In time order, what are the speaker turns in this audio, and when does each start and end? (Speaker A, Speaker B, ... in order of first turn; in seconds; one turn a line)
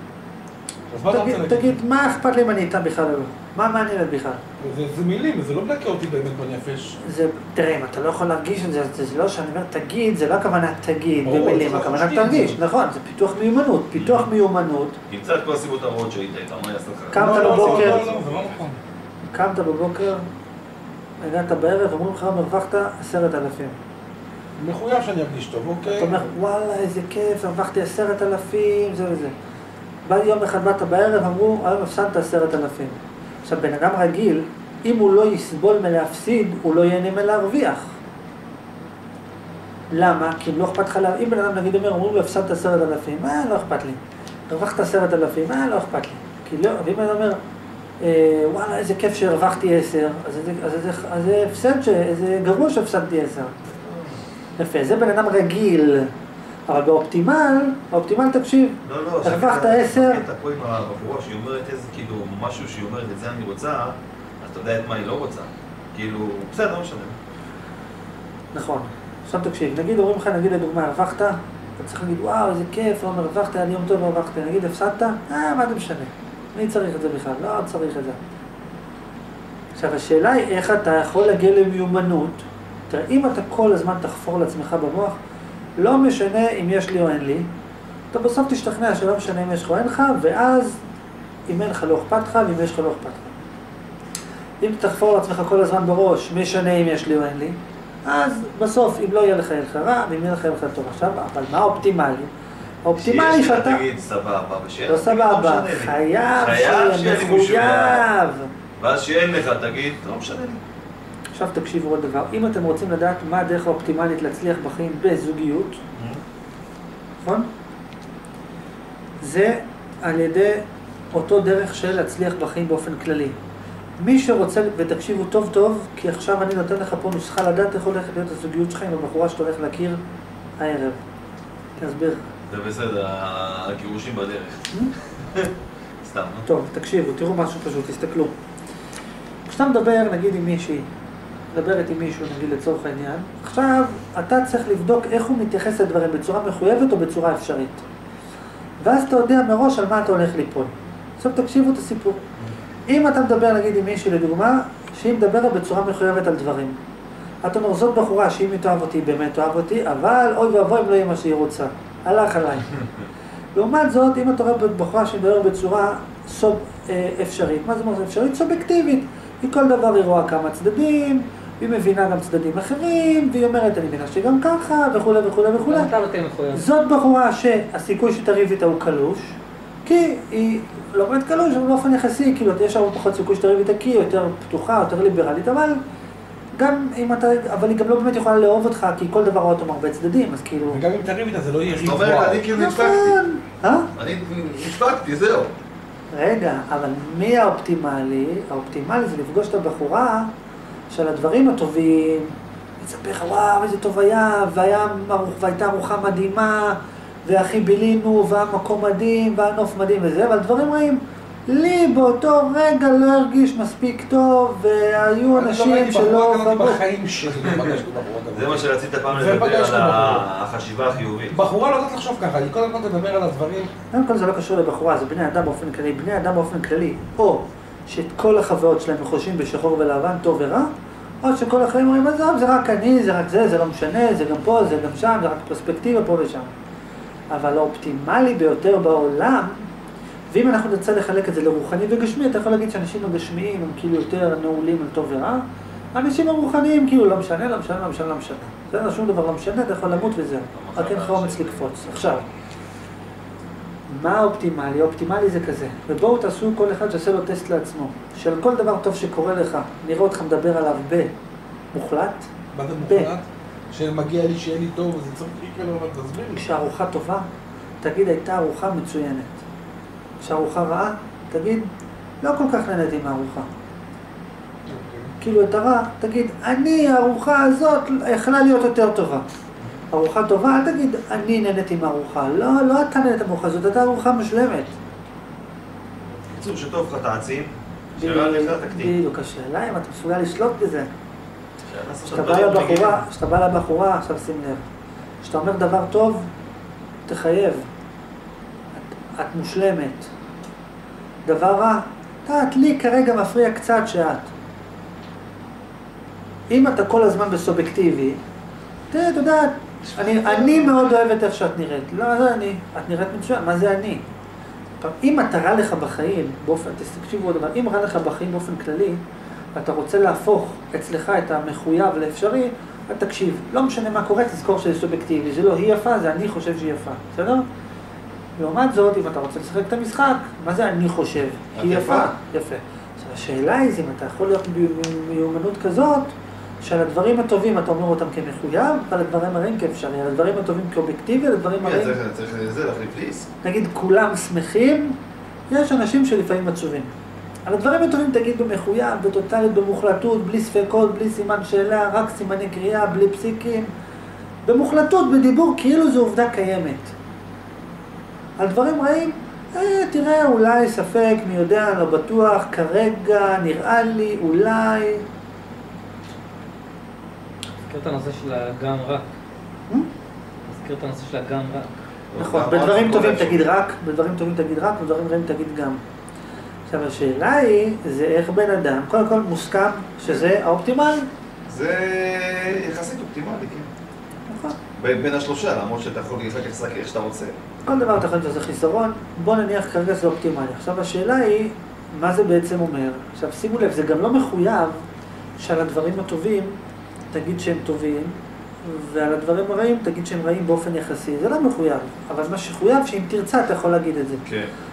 Speaker A: 0.9-1.8
Speaker B: 1.1-4.4
Speaker A: 4.6-6.9
Speaker B: 7.0-15.0
Speaker A: 11.2-12.6
Speaker C: 13.9-14.3
Speaker C: 15.1-18.1
Speaker B: 17.1-18.1
Speaker A: 17.1-18.8
Speaker B: 19.2-20.3
Speaker B: 21.2-23.8
Speaker A: 24.6-26.2
Speaker B: 25.9-29.3
Speaker B: 30.0-38.0
Speaker B: 39.9-47.4
Speaker B: 48.0-53.6
Speaker C: 53.6-54.2
Speaker B: 54.6-56.1
Speaker B: 56.7-60.2
Speaker C: 58.8-67.2
Speaker B: 68.5-78.2
Speaker B: 79.7-85.2
Speaker B: 85.8-87.5
Speaker B: 88.1-90.8
Speaker B: 91.5-93.3
Speaker B: 94.6-102.3
Speaker B: 102.8-103.8
Speaker C: 103.0-108.0
Speaker B: 104.9-108.5
Speaker C: 108.8-110.6
Speaker B: 111.3-115.8
Speaker C: 115.9-116.2
Speaker B: 117.2-117.5
Speaker B: 119.2-123.4
Speaker B: 124.0-130.0
Speaker B: 130.6-131.0
Speaker B: 131.8-132.3
Speaker C: 132.5-135.5
Speaker C: 136.0-136.5
Speaker B: 136.4-138.3
Speaker B: 139.4-140.9
Speaker B: 141.5-147.8
Speaker B: 148.8-152.2
Speaker B: 152.9-156.8
Speaker B: 157.4-162.8
Speaker B: 163.5-175.9
Speaker D: 175.6-176.6
Speaker B: 176.5-185.8
Speaker B: 186.5-190.8
Speaker A: 190.6-192.5
Speaker C: 191.7-193.2
Speaker B: 192.5-193.9
Speaker C: 193.9-195.5
Speaker B: 196.1-200.3
Speaker B: 200.9-216.8
Speaker A: 215.3-220.2
Speaker C: 217.4-217.8
Speaker C: 218.3-221.4
Speaker A: 221.3-223.7
Speaker B: 223.9-230.7
Speaker B: 231.2-236.5
Speaker B: 237.3-239.7
Speaker B: 240.3-245.4
Speaker B: 245.9-252.2
Speaker C: 250.5-252.2
Speaker B: 253.9-261.1
Speaker B: 261.7-262.3
Speaker A: 262.5-266.4
Speaker B: 262.8-263.1
Speaker B: 266.3-267.3
Speaker B: 267.8-269.4
Speaker B: 270.2-271.7
Speaker B: 272.2-273.5
Speaker A: 274.7-275.1
Speaker B: 275.2-279.2
Speaker B: 279.9-284.8
Speaker C: 286.2-289.0
Speaker B: 287.9-290.9
Speaker C: 291.7-293.0
Speaker B: 292.1-294.7
Speaker B: 295.2-296.3
Speaker B: 297.1-297.7
Speaker B: 298.7-300.1
Speaker B: 301.2-304.3
Speaker B: 306.5-308.2
Speaker B: 308.9-314.0
Speaker B: 314.8-319.0
Speaker B: 319.5-327.4
Speaker B: 328.4-342.0
Speaker C: 331.5-332.1
Speaker C: 341.6-343.3
Speaker B: 343.4-345.0
Speaker B: 345.5-346.9
Speaker B: 347.4-353.7
Speaker B: 354.4-356.9
Speaker B: 358.4-365.0
Speaker D: 367.7-369.1
Speaker D: 370.4-371.7
Speaker C: 372.1-373.4
Speaker B: 372.1-375.8
Speaker B: 376.7-381.1
Speaker C: 381.5-383.7
Speaker B: 384.3-384.6
Speaker C: 384.7-387.4
Speaker B: 387.6-394.8
Speaker B: 395.4-396.6
Speaker B: 397.1-404.2
Speaker C: 404.2-404.5